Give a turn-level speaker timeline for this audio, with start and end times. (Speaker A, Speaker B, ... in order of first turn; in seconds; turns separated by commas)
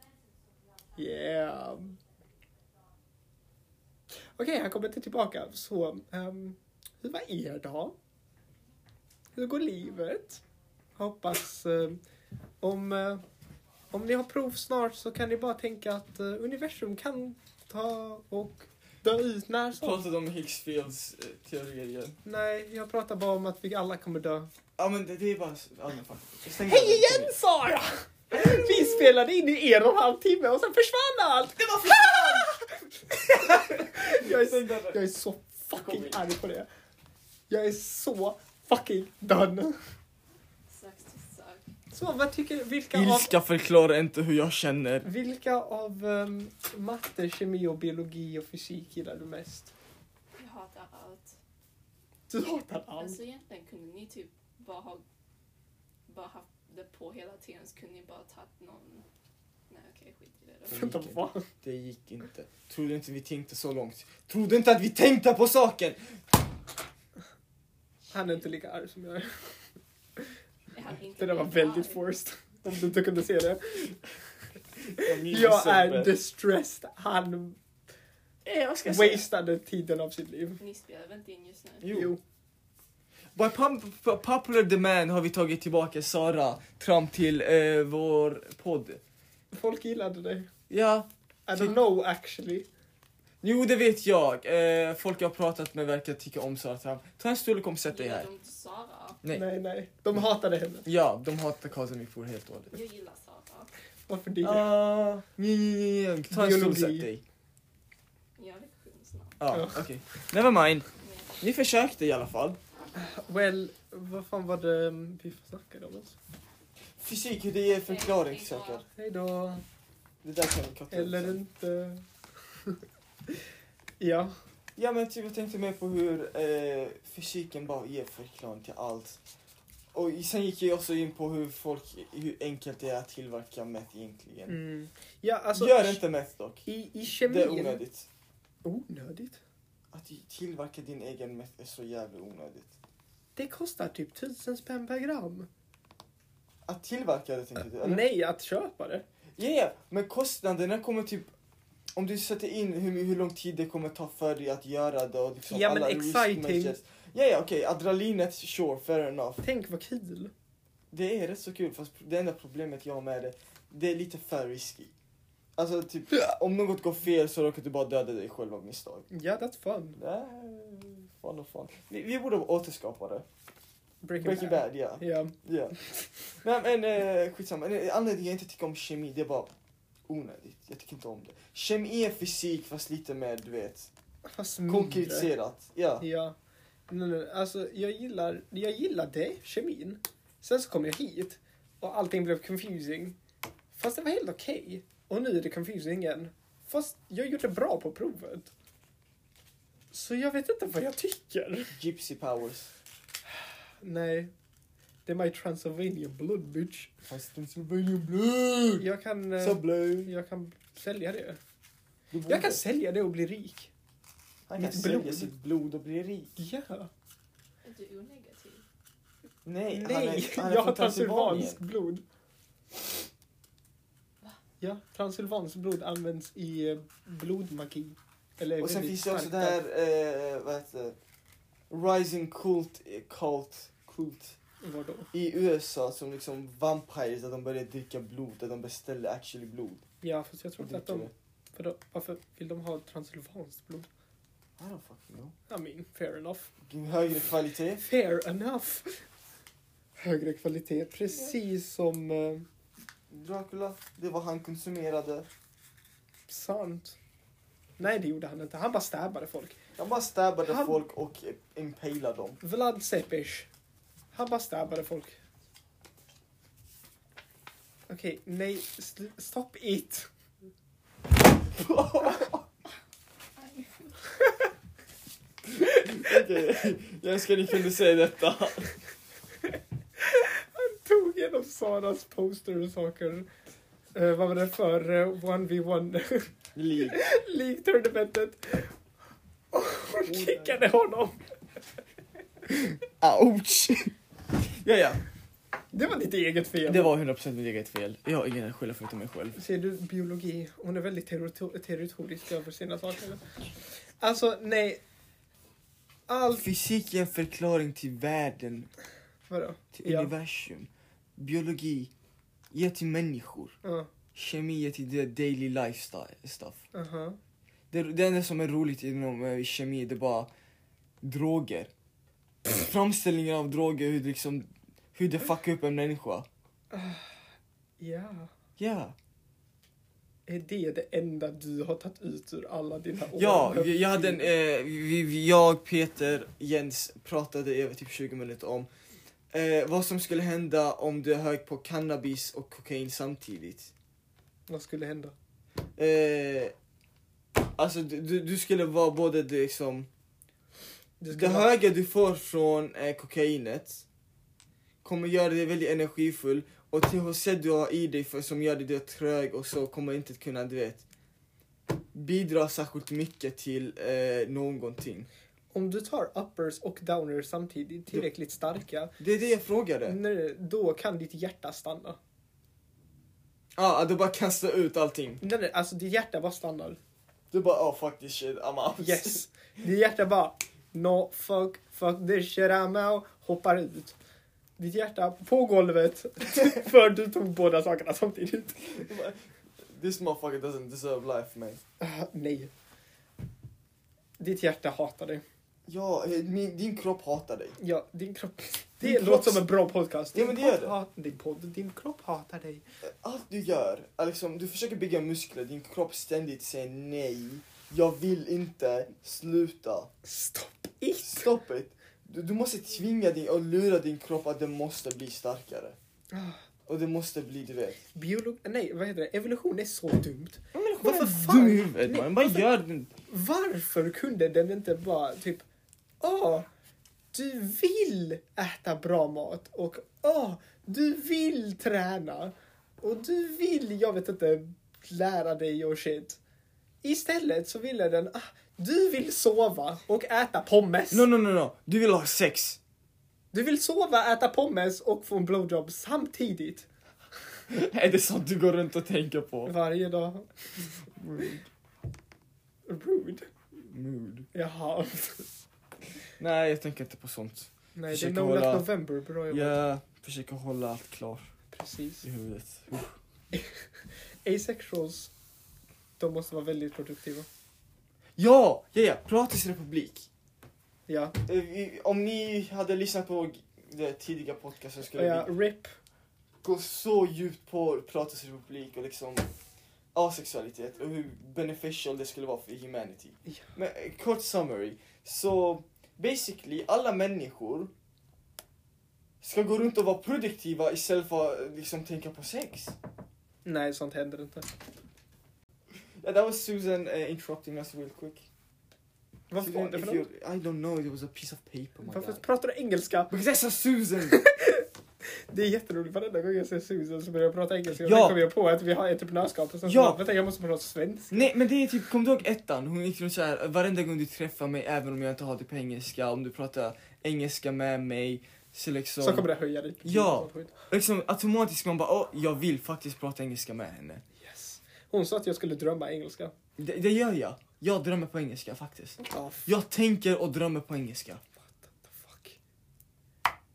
Speaker A: 0.9-2.0, Speaker A: 4.3-8.0, Speaker A: 9.4-10.4, Speaker A: 11.0-12.0, Speaker A: 12.6-13.2, Speaker A: 13.9-20.0, Speaker B: 19.8-22.2, Speaker A: 22.2-24.5, Speaker B: 24.8-27.3, Speaker A: 26.6-36.7, Speaker B: 28.4-29.0, Speaker B: 31.6-32.5, Speaker B: 33.3-35.0, Speaker B: 35.8-36.2, Speaker A: 37.5-39.8, Speaker C: 40.7-41.6, Speaker A: 41.9-43.3, Speaker B: 42.9-45.1, Speaker A: 45.0-49.7, Speaker C: 50.4-51.3, Speaker A: 52.3-53.2, Speaker C: 53.0-55.0, Speaker C: 56.1-59.0, Speaker C: 59.7-61.0, Speaker A: 60.7-61.5, Speaker B: 60.7-66.0, Speaker A: 68.1-69.5, Speaker C: 70.7-72.0, Speaker A: 71.2-74.1, Speaker B: 74.9-76.2, Speaker A: 74.9-77.6, Speaker B: 78.4-79.3, Speaker A: 78.8-80.6, Speaker C: 80.6-81.9, Speaker B: 81.8-82.1, Speaker A: 81.9-82.2, Speaker B: 83.3-89.0, Speaker A: 89.5-90.5, Speaker B: 90.7-91.8, Speaker A: 91.5-92.7, Speaker B: 93.4-98.3, Speaker C: 97.9-99.2, Speaker A: 99.3-100.9, Speaker B: 100.8-102.8, Speaker C: 102.7-103.7, Speaker A: 104.1-104.7, Speaker B: 104.4-107.2, Speaker A: 106.3-107.1, Speaker C: 108.4-109.4, Speaker B: 109.4-110.9, Speaker A: 109.5-109.9, Speaker C: 111.0-111.4, Speaker B: 111.4-112.6, Speaker A: 113.0-116.2, Speaker B: 117.0-118.8, Speaker C: 117.8-118.9, Speaker A: 119.0-119.6, Speaker B: 120.2-121.4, Speaker A: 120.9-122.0, Speaker A: 124.0-124.3, Speaker B: 124.8-129.2, Speaker B: 129.9-134.6, Speaker A: 134.5-136.0, Speaker B: 135.6-136.7, Speaker A: 136.7-137.8, Speaker B: 137.3-138.1, Speaker A: 138.6-139.4, Speaker B: 139.9-142.7, Speaker A: 143.4-145.5, Speaker B: 146.7-148.1, Speaker A: 147.8-149.1, Speaker B: 149.4-151.3, Speaker B: 151.9-159.4, Speaker A: 155.4-156.8, Speaker A: 159.4-160.3, Speaker B: 160.9-164.9, Speaker B: 165.6-169.1, Speaker A: 169.1-170.0, Speaker B: 170.0-173.2, Speaker A: 174.0-176.1, Speaker B: 174.2-175.8, Speaker B: 176.4-179.5, Speaker B: 180.1-183.9, Speaker A: 184.3-185.3, Speaker B: 184.7-186.1, Speaker A: 186.0-186.3, Speaker A: 186.9-193.2, Speaker A: 193.7-198.5, Speaker A: 199.9-201.8, Speaker B: 201.8-202.7, Speaker A: 203.8-204.3, Speaker A: 205.1-206.9, Speaker B: 207.1-208.9, Speaker A: 208.8-211.4, Speaker B: 209.4-210.1, Speaker B: 212.1-212.6, Speaker A: 212.3-213.7, Speaker B: 214.5-216.4, Speaker A: 214.6-215.3, Speaker A: 216.4-216.9, Speaker C: 217.6-218.6, Speaker B: 219.4-221.6, Speaker A: 219.7-222.0, Speaker A: 224.6-229.6, Speaker B: 228.6-231.0, Speaker B: 231.7-234.4, Speaker A: 234.6-235.1, Speaker B: 235.1-239.8, Speaker A: 240.0-243.9, Speaker B: 240.6-241.1, Speaker B: 244.6-245.3, Speaker A: 245.5-246.5, Speaker B: 246.7-247.8, Speaker A: 247.8-249.1, Speaker A: 250.0-252.5, Speaker B: 251.1-251.4, Speaker B: 253.1-255.3, Speaker A: 256.3-257.0, Speaker A: 257.8-259.6, Speaker B: 259.8-262.4, Speaker A: 260.4-260.8, Speaker A: 262.4-263.5, Speaker A: 264.1-265.2, Speaker A: 267.9-270.1, Speaker B: 271.5-272.5, Speaker C: 273.4-273.9, Speaker B: 275.5-278.7, Speaker A: 280.0-283.3, Speaker A: 283.9-286.3, Speaker B: 286.6-287.0, Speaker A: 286.9-288.8, Speaker A: 289.5-291.2, Speaker B: 290.1-290.6, Speaker B: 292.5-295.0, Speaker A: 295.7-296.9, Speaker B: 296.7-299.4, Speaker A: 299.4-304.8, Speaker A: 306.1-306.5, Speaker B: 306.3-308.7, Speaker A: 309.3-310.1, Speaker B: 309.7-311.9, Speaker B: 312.5-313.6, Speaker A: 313.6-313.9, Speaker B: 314.1-316.6, Speaker A: 316.7-317.2, Speaker B: 317.7-320.3, Speaker B: 321.0-321.7, Speaker B: 322.4-326.3, Speaker A: 326.7-327.2, Speaker A: 327.8-328.3, Speaker B: 328.6-328.9, Speaker A: 330.3-334.3, Speaker B: 333.2-338.7, Speaker B: 339.3-343.7, Speaker A: 344.5-345.1, Speaker B: 345.8-346.5, Speaker B: 347.6-349.9, Speaker A: 351.0-351.5, Speaker B: 351.1-353.9, Speaker B: 354.8-360.9, Speaker B: 361.9-365.1, Speaker A: 365.5-369.0, Speaker B: 369.0-370.0, Speaker A: 369.9-372.0, Speaker B: 373.6-375.2, Speaker A: 375.2-376.8, Speaker B: 377.3-379.2, Speaker A: 378.8-384.0, Speaker A: 384.6-388.9, Speaker B: 388.7-391.6, Speaker A: 391.8-392.5, Speaker A: 394.2-395.2, Speaker B: 395.7-397.6, Speaker A: 397.6-402.6, Speaker B: 398.8-399.5, Speaker B: 400.1-400.8, Speaker B: 402.8-409.9, Speaker A: 410.0-411.3, Speaker B: 411.0-415.8, Speaker A: 416.1-416.4, Speaker B: 416.7-417.8, Speaker A: 417.9-422.5, Speaker B: 420.5-422.9, Speaker A: 423.1-425.4, Speaker A: 426.0-426.5, Speaker A: 427.1-436.2, Speaker A: 436.8-441.1, Speaker B: 440.9-442.6, Speaker A: 443.3-446.7, Speaker B: 447.5-449.5, Speaker A: 449.5-450.7, Speaker B: 450.9-451.4, Speaker A: 452.7-453.3, Speaker B: 453.6-454.3, Speaker A: 454.3-455.3, Speaker B: 456.2-458.7, Speaker A: 457.8-459.6, Speaker B: 459.3-461.3, Speaker A: 461.5-462.1, Speaker B: 462.0-463.0, Speaker A: 463.3-465.1, Speaker A: 466.0-467.3, Speaker B: 468.2-470.1, Speaker A: 470.9-471.2, Speaker B: 471.3-475.3, Speaker A: 474.9-475.8, Speaker B: 476.4-479.3, Speaker B: 479.9-487.7, Speaker A: 483.3-483.5, Speaker B: 489.2-492.8, Speaker A: 493.4-494.5, Speaker B: 496.0-498.2, Speaker A: 499.3-500.1, Speaker B: 499.4-502.2, Speaker A: 501.9-503.1, Speaker B: 503.1-504.2, Speaker A: 504.1-511.3, Speaker B: 507.8-508.2, Speaker B: 509.6-510.0, Speaker B: 511.1-519.3, Speaker A: 519.0-520.5, Speaker B: 519.8-524.0, Speaker A: 524.2-526.3, Speaker B: 526.6-531.2, Speaker A: 529.0-529.5, Speaker A: 531.4-532.4